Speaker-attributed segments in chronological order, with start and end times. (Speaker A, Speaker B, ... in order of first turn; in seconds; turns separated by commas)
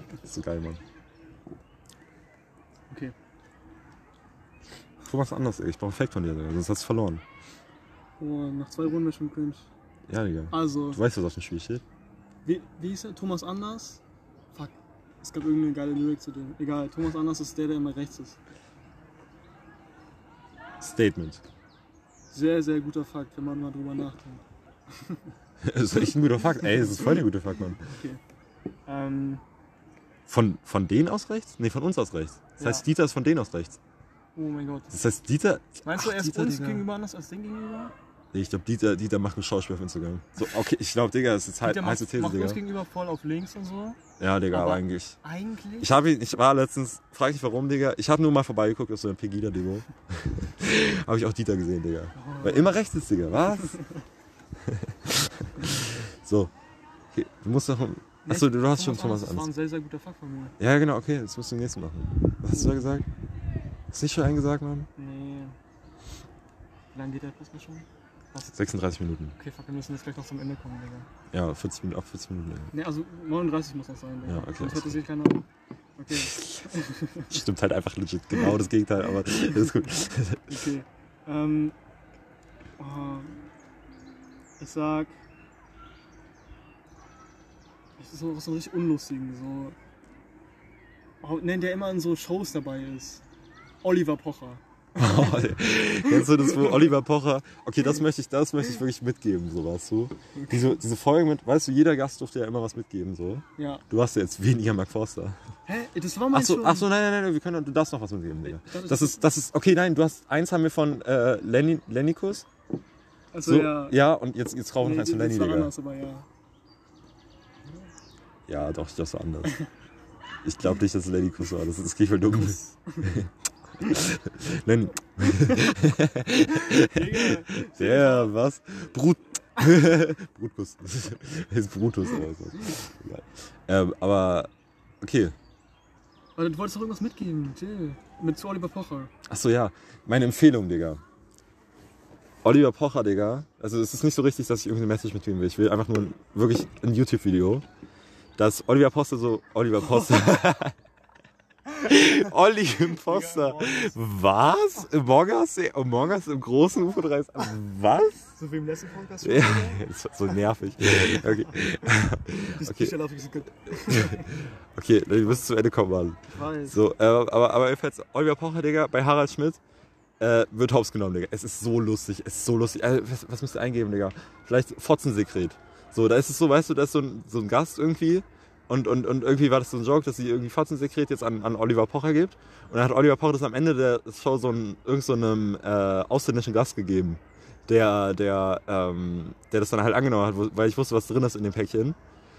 Speaker A: 0.2-0.8, Speaker B: 2.9-3.1, Speaker A: 5.0-7.2, Speaker B: 8.2-9.7, Speaker A: 10.1-11.8, Speaker B: 10.5-11.0, Speaker B: 12.4-14.0, Speaker B: 14.5-18.4, Speaker A: 20.8-21.4, Speaker B: 22.3-24.4, Speaker A: 25.6-27.8, Speaker B: 27.9-28.2, Speaker B: 28.9-29.4, Speaker A: 30.3-33.8, Speaker B: 32.6-32.8, Speaker B: 34.3-34.9, Speaker A: 34.9-36.9, Speaker B: 35.8-37.9, Speaker A: 38.3-42.6, Speaker B: 41.6-44.0, Speaker A: 44.2-45.2, Speaker B: 44.5-46.0, Speaker A: 45.8-53.8, Speaker B: 52.1-52.8, Speaker A: 54.6-56.5, Speaker A: 57.1-59.5, Speaker B: 58.2-60.5, Speaker A: 60.6-63.1, Speaker A: 63.9-64.9, Speaker B: 65.0-65.5, Speaker B: 66.9-68.5, Speaker A: 68.5-69.3, Speaker B: 69.4-71.1, Speaker A: 71.3-72.7, Speaker B: 72.7-75.4, Speaker A: 74.2-75.0, Speaker B: 76.0-77.3, Speaker A: 77.3-80.6, Speaker B: 80.5-81.7, Speaker B: 82.8-83.4, Speaker B: 84.6-85.1, Speaker B: 88.0-89.8, Speaker B: 91.2-93.2, Speaker B: 93.8-95.4, Speaker A: 94.9-105.4, Speaker B: 96.0-96.8, Speaker B: 103.6-103.8, Speaker B: 105.7-106.9, Speaker A: 106.3-112.5, Speaker B: 108.6-109.3, Speaker B: 113.3-114.0, Speaker A: 113.4-115.7, Speaker B: 114.8-116.2, Speaker A: 118.5-119.6, Speaker A: 120.4-123.3, Speaker B: 122.3-123.1, Speaker A: 123.8-134.5, Speaker B: 126.5-128.3, Speaker A: 135.0-135.3, Speaker B: 136.4-139.1, Speaker A: 139.3-141.0, Speaker A: 142.4-147.6, Speaker A: 148.4-150.7, Speaker A: 151.7-158.3, Speaker B: 152.8-153.9, Speaker B: 158.4-159.8, Speaker A: 159.2-162.9, Speaker B: 162.5-164.4, Speaker A: 163.8-169.6, Speaker B: 166.3-166.8, Speaker A: 170.2-192.0